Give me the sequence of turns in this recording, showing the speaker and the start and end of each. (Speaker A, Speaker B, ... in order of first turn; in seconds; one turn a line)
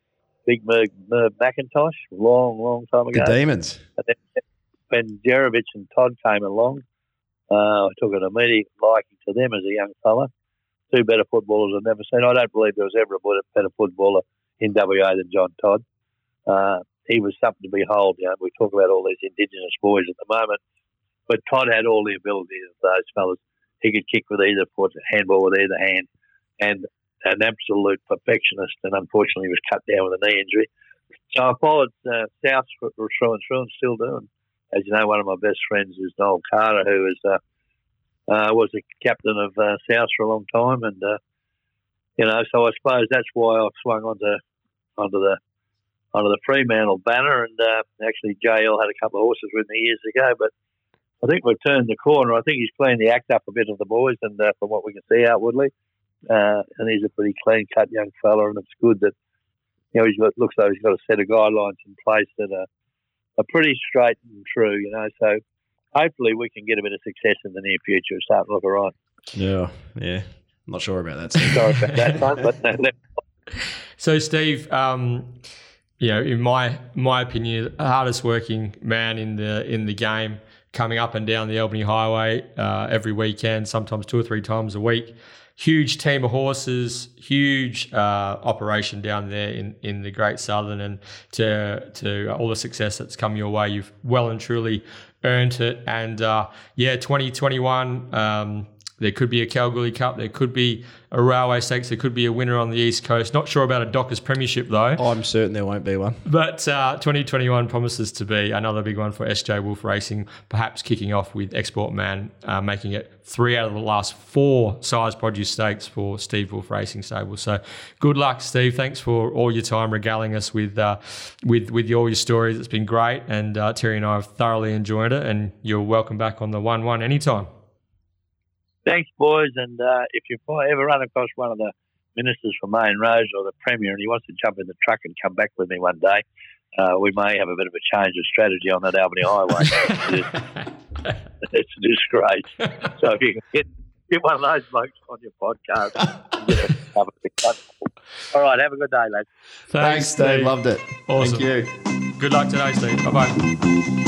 Speaker A: 0.5-3.3
Speaker B: 3.1-3.8
Speaker A: 4.0-4.4
Speaker A: 4.9-6.8
Speaker A: 7.5-10.3
Speaker A: 10.9-15.8
Speaker A: 16.5-20.6
Speaker A: 21.3-26.1
Speaker A: 26.6-30.7
Speaker A: 31.3-37.4
Speaker A: 38.3-41.2
Speaker A: 42.2-44.4
Speaker A: 45.0-45.4
Speaker A: 46.1-50.5
Speaker A: 51.2-55.7
Speaker A: 56.3-59.1
Speaker A: 59.9-62.7
Speaker A: 63.4-65.4
Speaker A: 65.9-68.9
Speaker B: 69.3-72.5
Speaker A: 71.5-73.0
Speaker C: 73.6-75.4
Speaker C: 76.0-105.0
Speaker B: 105.0-106.2
Speaker C: 106.2-127.5
Speaker A: 128.9-136.2
Speaker A: 136.8-140.3
Speaker C: 139.8-141.2
Speaker A: 141.4-147.6
Speaker A: 148.3-149.3
Speaker C: 149.7-151.5
Speaker B: 149.8-151.7
Speaker C: 152.2-153.4